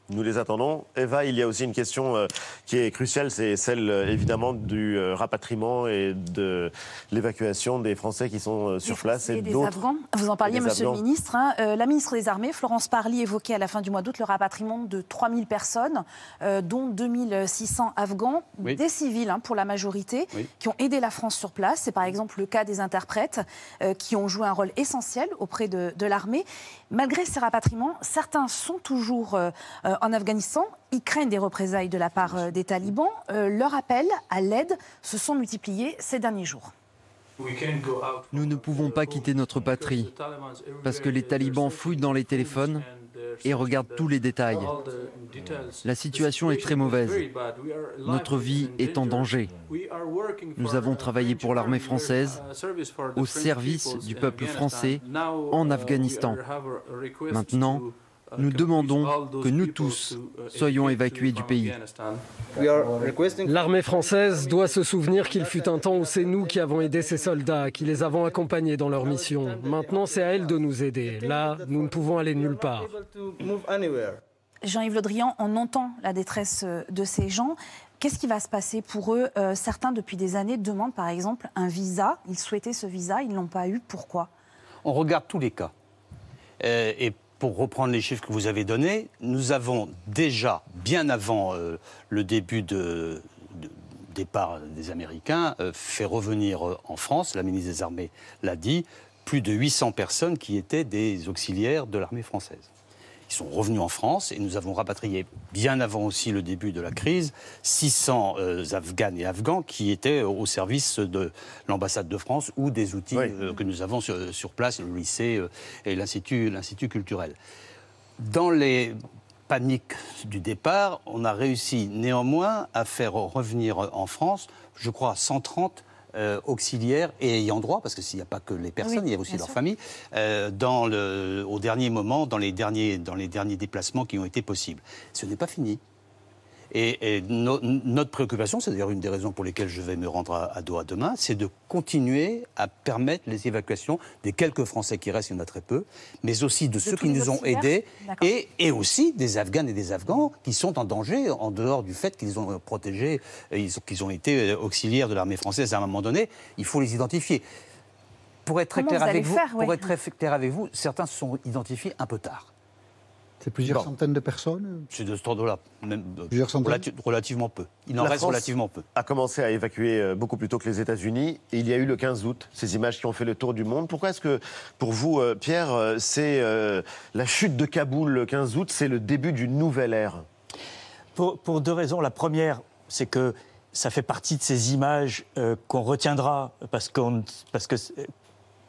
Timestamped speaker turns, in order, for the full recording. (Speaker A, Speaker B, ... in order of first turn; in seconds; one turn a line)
Speaker A: 0.1-9.8
Speaker B: 8.8-36.7
Speaker A: 10.4-11.0
Speaker C: 38.3-40.1
Speaker C: 40.8-42.9
Speaker C: 43.4-44.7
Speaker C: 45.8-47.3
Speaker C: 48.0-49.6
Speaker C: 50.6-52.5
Speaker C: 53.2-56.4
Speaker C: 57.3-61.8
Speaker D: 62.8-73.0
Speaker B: 74.6-84.3
Speaker E: 84.8-85.7
Speaker E: 86.6-102.7
Speaker E: 103.3-117.4
Speaker E: 118.2-135.8
Speaker B: 128.8-129.6
Speaker E: 136.7-157.4
Speaker B: 146.8-148.3
Speaker E: 158.5-162.5
Speaker B: 158.8-159.9
Speaker F: 163.4-164.9
Speaker E: 164.9-168.8
Speaker F: 166.3-166.8
Speaker A: 168.0-180.2
Speaker G: 181.2-188.1